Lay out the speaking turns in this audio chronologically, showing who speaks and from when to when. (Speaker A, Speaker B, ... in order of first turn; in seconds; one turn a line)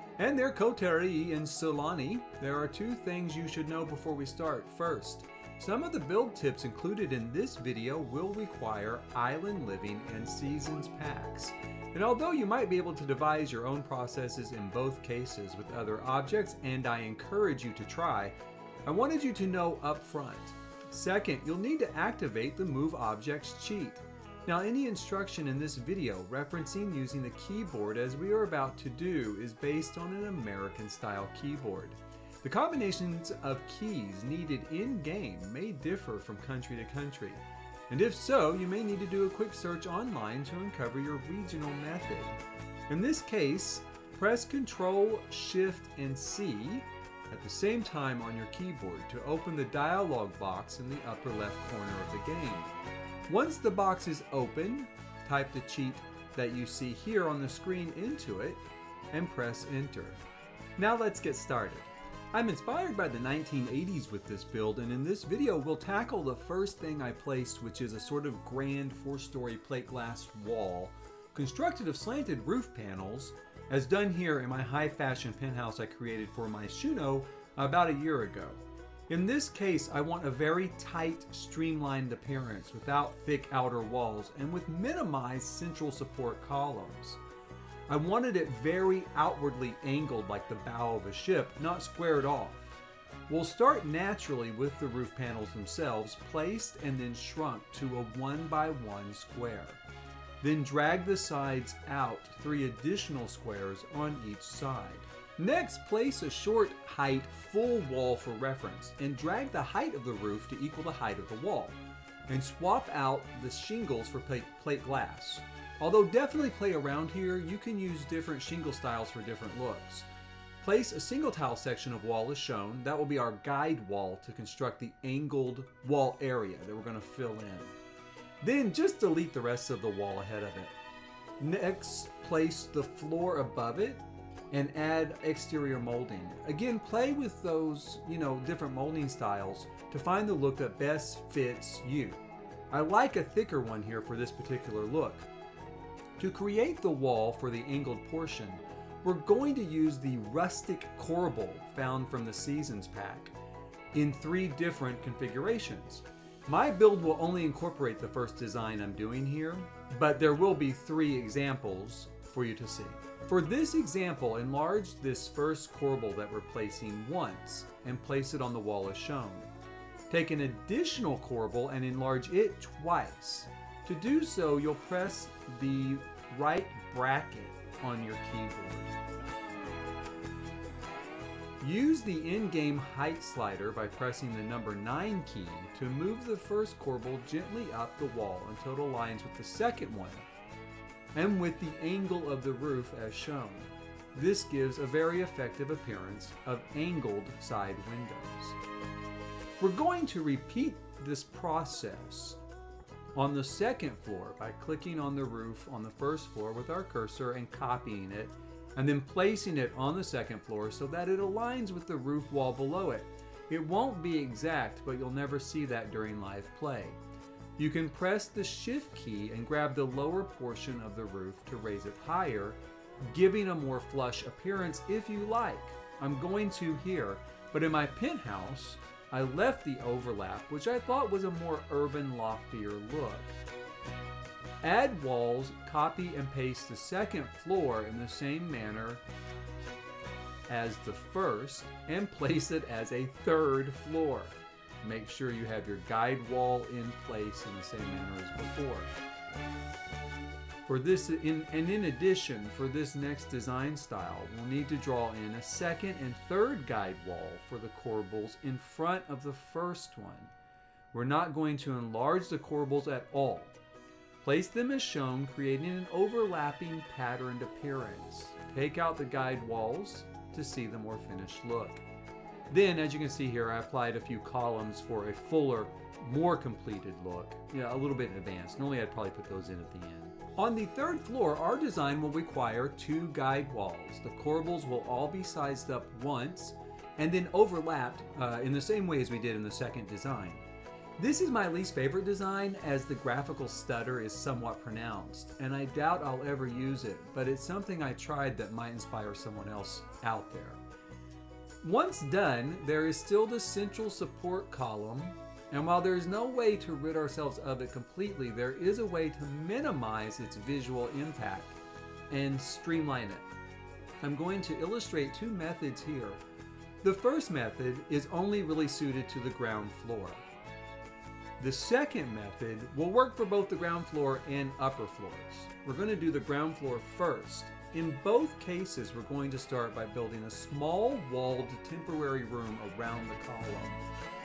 Speaker A: 0.2-18.3
Speaker A: 18.9-52.7
Speaker A: 53.3-60.2
Speaker A: 60.8-87.2
Speaker A: 87.9-99.8
Speaker A: 100.4-120.1
Speaker A: 120.6-127.8
Speaker A: 128.4-130.7
Speaker A: 131.4-145.3
Speaker A: 146.2-153.3
Speaker A: 153.9-169.5
Speaker A: 170.1-178.9
Speaker A: 181.6-190.3
Speaker A: 191.1-198.6
Speaker A: 199.6-202.4
Speaker A: 203.1-217.0
Speaker A: 217.6-233.3
Speaker A: 234.6-239.0
Speaker A: 240.5-248.9
Speaker A: 250.7-260.3
Speaker A: 260.9-263.5
Speaker A: 264.2-271.8
Speaker A: 272.5-290.4
Speaker A: 291.0-300.6
Speaker A: 301.6-313.3
Speaker A: 314.0-316.2
Speaker A: 316.8-320.2
Speaker A: 321.4-333.8